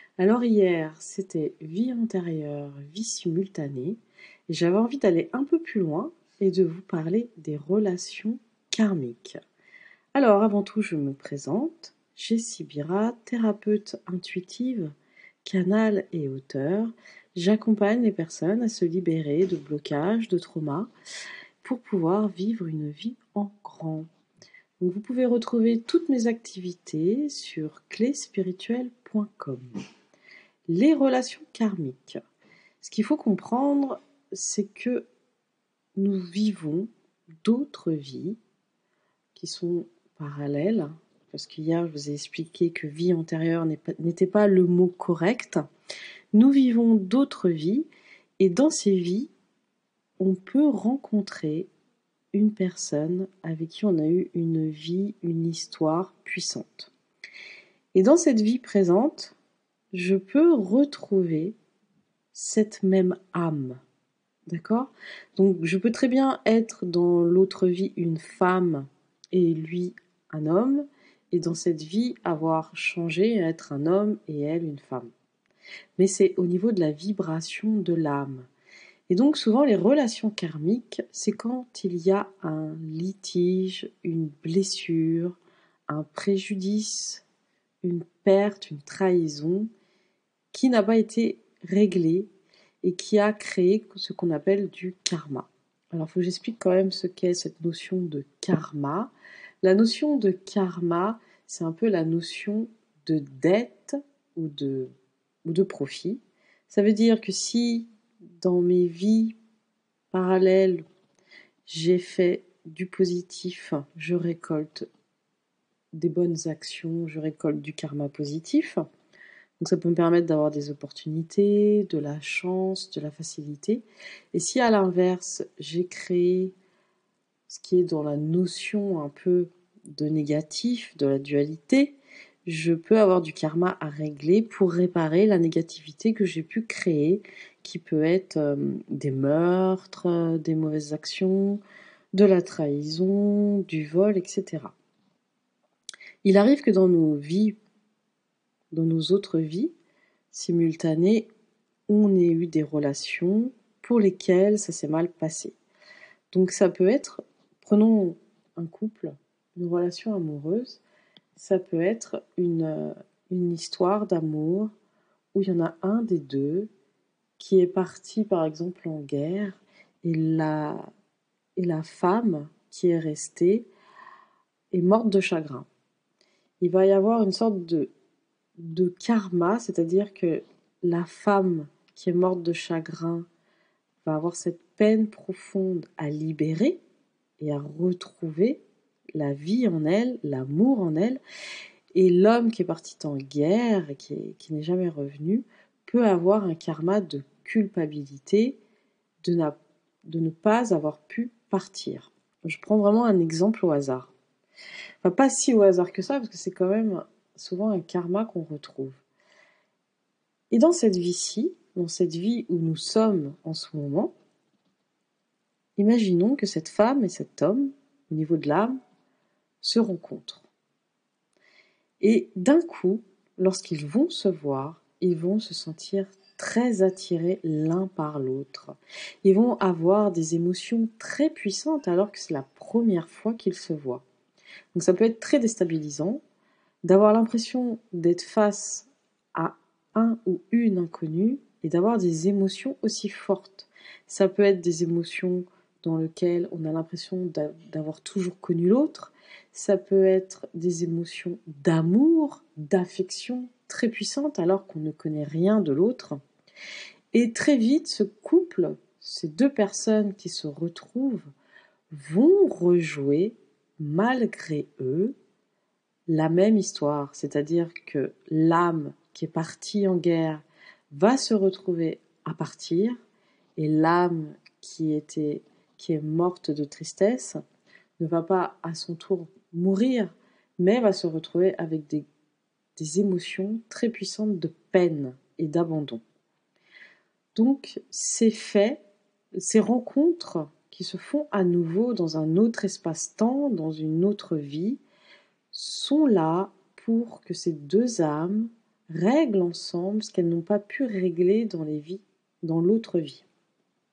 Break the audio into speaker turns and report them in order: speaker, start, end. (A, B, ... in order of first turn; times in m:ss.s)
0:00.2-0:09.4 A
0:10.2-0:14.9 A
0:15.4-0:20.9 A
0:21.6-0:24.1 A
0:24.8-0:29.8 A
0:30.7-0:32.2 A
0:32.8-0:35.1 A
0:36.0-0:36.9 A
0:37.4-0:38.4 A
0:39.4-0:45.7 A
0:46.3-0:47.9 A
0:48.4-0:49.3 A
0:50.2-0:51.7 A
0:52.3-0:56.9 A
0:57.9-0:59.4 A
0:59.9-1:01.6 A
1:02.3-1:03.8 A
1:04.5-1:15.1 A
1:16.0-1:18.5 A
1:19.1-1:25.4 A
1:25.9-1:27.2 A
1:27.8-1:29.7 A
1:30.5-1:32.3 A
1:32.8-1:39.1 A
1:39.6-1:44.9 A
1:45.4-1:47.9 A
1:48.4-1:49.4 A
1:50.1-1:50.8 A
1:51.7-1:54.9 A
1:56.0-1:58.8 A
1:59.6-2:06.5 A
2:07.5-2:21.6 A
2:22.1-2:24.8 A
2:26.2-2:27.6 A
2:28.7-2:29.7 A
2:30.3-2:31.3 A
2:31.9-2:35.6 A
2:36.3-2:40.8 A
2:41.4-2:44.7 A
2:45.3-2:46.7 A
2:47.4-2:50.9 A
2:51.6-2:53.7 A
2:54.7-2:55.7 A
2:56.6-2:57.9 A
2:58.6-3:03.3 A
3:04.0-3:06.8 A
3:07.4-3:08.6 A
3:09.2-3:11.2 A
3:12.0-3:18.6 A
3:19.2-3:24.1 A
3:25.0-3:29.0 A
3:30.5-3:34.2 A
3:35.8-3:38.8 A
3:39.6-3:40.5 A
3:42.0-3:54.0 A
3:54.8-3:56.2 A
3:56.8-4:16.2 A
4:17.1-4:21.3 A
4:21.9-4:25.2 A
4:26.1-4:33.0 A
4:33.6-4:37.4 A
4:38.0-4:42.1 A
4:42.8-4:46.0 A
4:47.4-4:48.8 A
4:49.4-4:54.8 A
4:55.5-5:03.3 A